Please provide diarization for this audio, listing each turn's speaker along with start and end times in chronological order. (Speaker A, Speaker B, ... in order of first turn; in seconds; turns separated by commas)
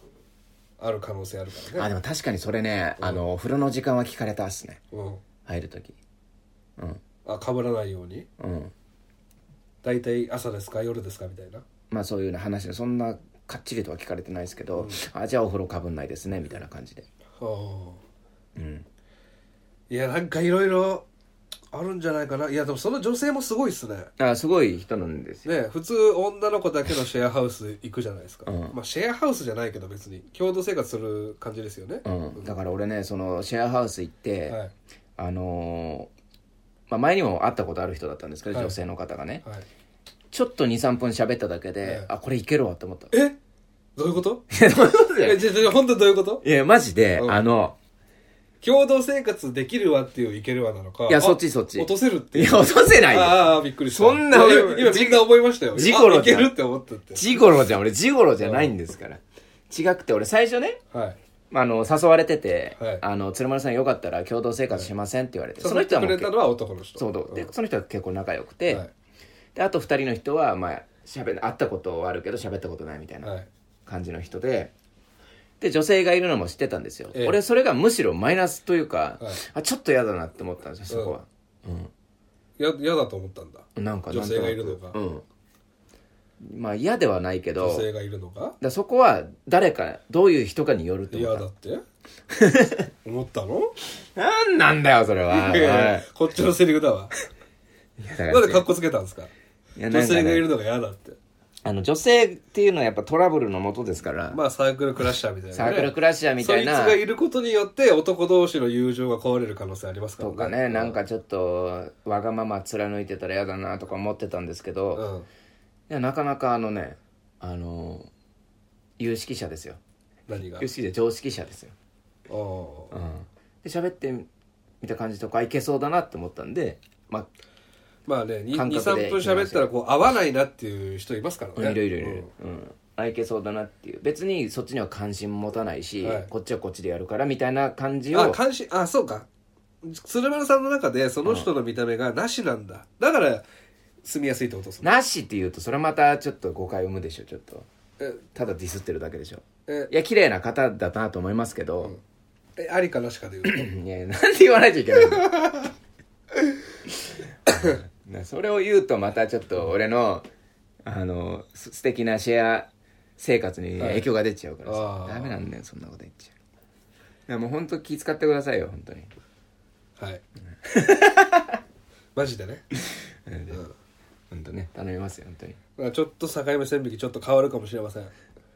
Speaker A: 0.8-1.9, Speaker B: 1.8-4.8, Speaker A: 3.0-3.3, Speaker A: 4.9-5.2, Speaker B: 5.5-6.0, Speaker A: 7.2-8.3, Speaker B: 8.4-8.7, Speaker A: 9.8-11.6, Speaker B: 11.9-17.0, Speaker A: 14.8-15.0, Speaker A: 17.4-18.0, Speaker B: 18.6-18.9, Speaker A: 19.9-21.1, Speaker A: 21.7-24.1, Speaker B: 24.2-25.5, Speaker A: 25.4-32.5, Speaker B: 28.5-28.8, Speaker B: 32.0-34.6, Speaker B: 35.2-36.1, Speaker B: 36.9-39.4, Speaker A: 38.5-38.8, Speaker B: 40.3-43.1, Speaker A: 41.8-42.1, Speaker A: 43.1-43.4, Speaker A: 44.0-44.4, Speaker B: 44.5-45.6, Speaker A: 45.2-46.4, Speaker B: 46.4-47.8, Speaker A: 48.6-57.4, Speaker B: 51.1-56.5, Speaker B: 57.1-60.8, Speaker A: 58.4-58.7, Speaker A: 60.9-61.2, Speaker B: 61.5-66.3, Speaker A: 62.8-63.0, Speaker A: 65.6-67.5, Speaker B: 67.0-68.8, Speaker B: 69.5-73.3, Speaker A: 73.2-73.5, Speaker B: 73.9-74.7, Speaker B: 75.6-81.9, Speaker A: 80.9-81.2, Speaker A: 82.6-85.0, Speaker B: 83.8-85.2, Speaker B: 86.4-87.9, Speaker A: 87.6-88.6, Speaker B: 88.6-91.5, Speaker A: 91.1-91.8, Speaker B: 92.3-92.9, Speaker A: 93.0-93.7, Speaker B: 94.2-96.1, Speaker A: 95.3-97.1, Speaker B: 98.0-98.7, Speaker A: 98.3-99.3, Speaker B: 99.8-100.5, Speaker A: 99.9-101.2, Speaker B: 101.7-104.4, Speaker A: 104.3-111.0, Speaker B: 105.5-107.0, Speaker B: 110.2-115.0, Speaker A: 115.0-115.3, Speaker B: 115.9-118.1, Speaker B: 119.0-119.8, Speaker A: 120.3-120.7, Speaker B: 120.6-121.7, Speaker A: 122.3-122.9, Speaker B: 122.9-124.3, Speaker B: 124.8-127.3, Speaker A: 128.1-132.3, Speaker B: 128.5-129.7, Speaker B: 131.6-138.4, Speaker A: 136.0-136.3, Speaker A: 138.1-139.3, Speaker A: 139.8-143.5, Speaker A: 144.0-144.9, Speaker B: 144.8-147.7, Speaker B: 148.3-152.0, Speaker A: 152.6-153.7, Speaker B: 153.4-155.7, Speaker B: 157.5-160.3, Speaker B: 160.8-166.3, Speaker A: 163.8-164.1, Speaker A: 164.7-165.4, Speaker B: 167.3-169.1, Speaker A: 170.0-170.2, Speaker B: 170.6-171.6, Speaker A: 172.2-172.6, Speaker B: 172.8-173.6, Speaker B: 174.3-175.6, Speaker A: 175.8-178.1